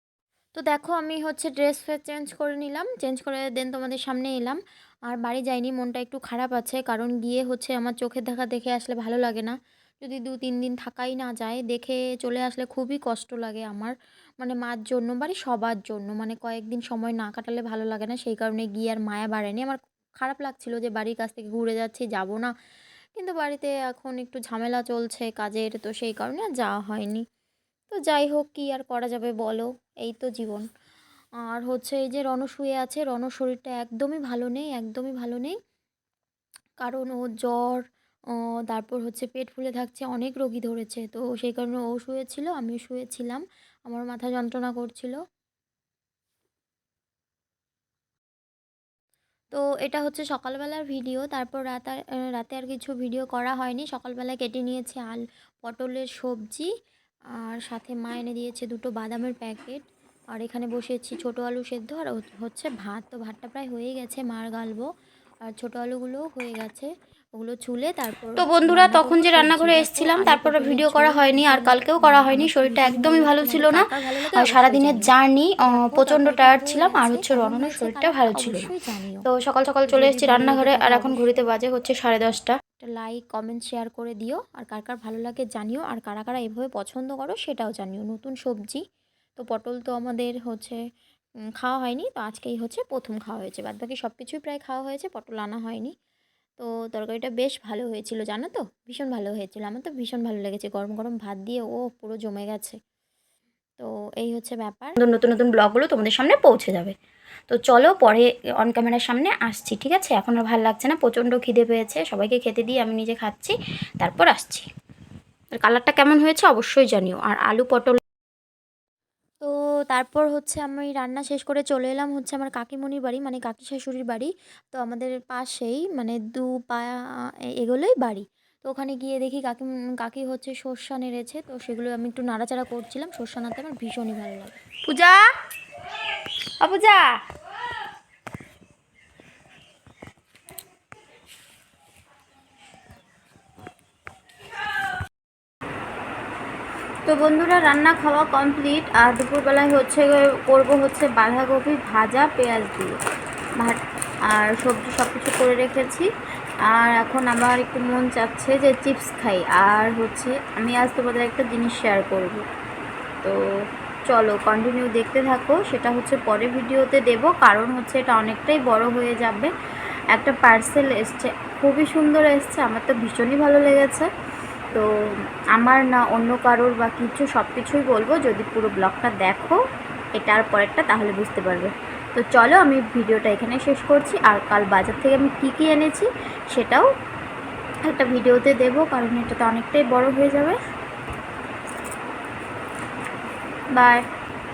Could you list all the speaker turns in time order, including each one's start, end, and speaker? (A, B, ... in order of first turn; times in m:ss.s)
0:00.6-0:22.5 A
0:23.2-0:27.2 A
0:27.9-0:30.6 A
0:31.5-0:35.6 A
0:36.8-0:37.8 A
0:38.7-0:45.2 A
0:49.5-0:56.7 A
0:57.4-1:04.9 A
1:05.5-1:15.1 A
1:08.4-1:18.7 B
1:15.7-1:19.2 A
1:19.3-1:22.6 B
1:19.9-1:21.5 A
1:22.8-1:28.8 A
1:29.4-1:30.8 A
1:31.6-1:35.9 A
1:36.6-1:42.8 A
1:43.8-1:45.0 A
1:45.0-1:47.0 B
1:47.5-1:54.7 B
1:55.6-1:58.0 B
1:59.4-2:07.0 A
2:07.6-2:14.6 A
2:14.9-2:15.3 B
2:16.6-2:17.2 B
2:27.1-2:33.0 B
2:34.3-2:36.1 B
2:36.7-2:42.5 B
2:44.1-2:49.5 B
2:50.1-2:54.1 B
2:55.6-2:59.6 B
3:00.2-3:06.9 B
3:07.9-3:10.6 B
3:13.7-3:14.0 B